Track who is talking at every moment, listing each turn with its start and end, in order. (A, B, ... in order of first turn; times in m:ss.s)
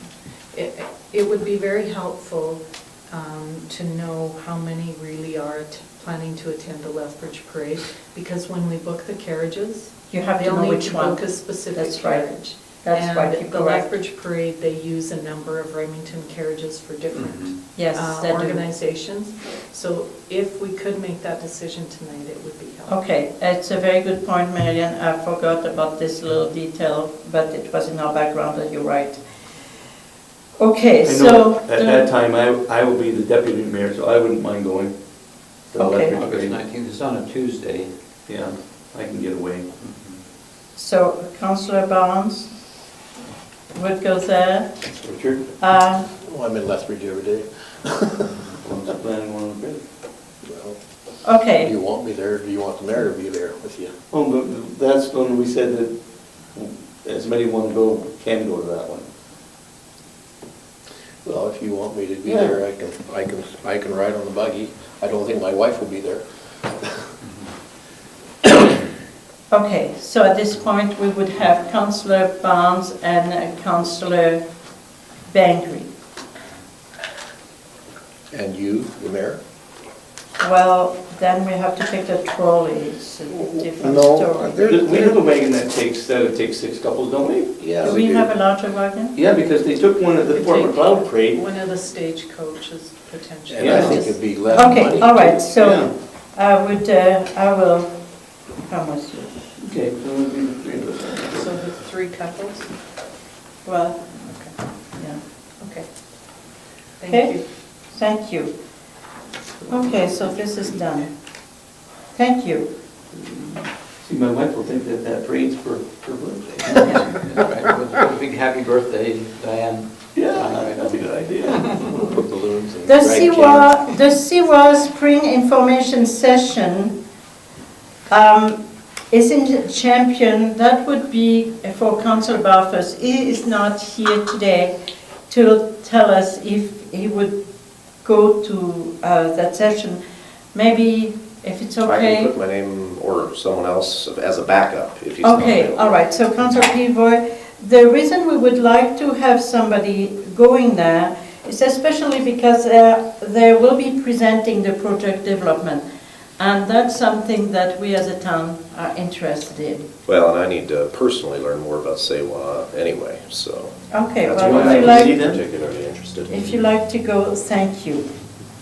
0:00.5-0:23.0 A
0:10.1-0:13.9 B
0:17.1-0:17.5 C
0:17.7-0:18.6 B
0:22.9-0:29.2 B
0:30.6-0:32.1 B
0:31.0-0:34.9 D
0:35.7-0:36.6 D
0:35.8-0:36.2 B
0:36.1-0:37.9 C
0:38.3-0:39.7 D
0:40.8-0:42.5 B
0:43.7-0:44.7 B
0:45.0-0:45.4 D
0:45.6-0:46.1 B
0:46.2-0:48.5 E
0:48.6-0:49.8 D
0:50.4-0:50.8 E
0:51.2-0:51.7 B
0:51.5-0:53.9 E
0:54.1-0:55.9 D
0:56.5-0:59.1 D
1:01.2-1:06.2 E
1:02.3-1:02.5 D
1:09.5-1:14.4 B
1:15.3-1:15.9 B
1:18.3-1:19.4 E
1:20.4-1:24.6 B
1:23.8-1:28.0 D
1:24.5-1:25.2 E
1:27.6-1:28.2 E
1:27.8-1:29.1 B
1:29.1-1:31.4 D
1:30.3-1:34.7 A
1:33.5-1:35.3 E
1:33.6-1:34.0 D
1:34.5-1:37.9 B
1:35.1-1:35.9 D
1:38.6-1:39.3 B
1:39.6-1:41.4 D
1:41.3-1:42.7 A
1:43.6-1:44.1 B
1:44.2-1:44.5 A
1:45.6-1:45.8 A
1:47.0-1:47.4 A
1:47.1-1:47.4 B
1:47.9-1:48.5 B
1:49.7-1:51.1 B
1:52.1-1:52.7 B
1:53.1-1:57.2 D
1:56.9-2:00.9 C
2:00.1-2:01.8 D
2:01.8-2:03.8 E
2:02.9-2:07.0 B
2:08.1-2:08.6 B
2:09.1-2:14.7 B
2:15.3-2:17.4 B
2:18.0-2:20.0 B
2:20.5-2:22.3 B
2:21.8-2:26.0 F
2:25.2-2:35.8 B
2:36.4-2:39.9 B
2:40.1-2:46.5 F
2:43.9-2:45.2 B
2:44.3-2:45.4 D
2:46.3-2:48.0 B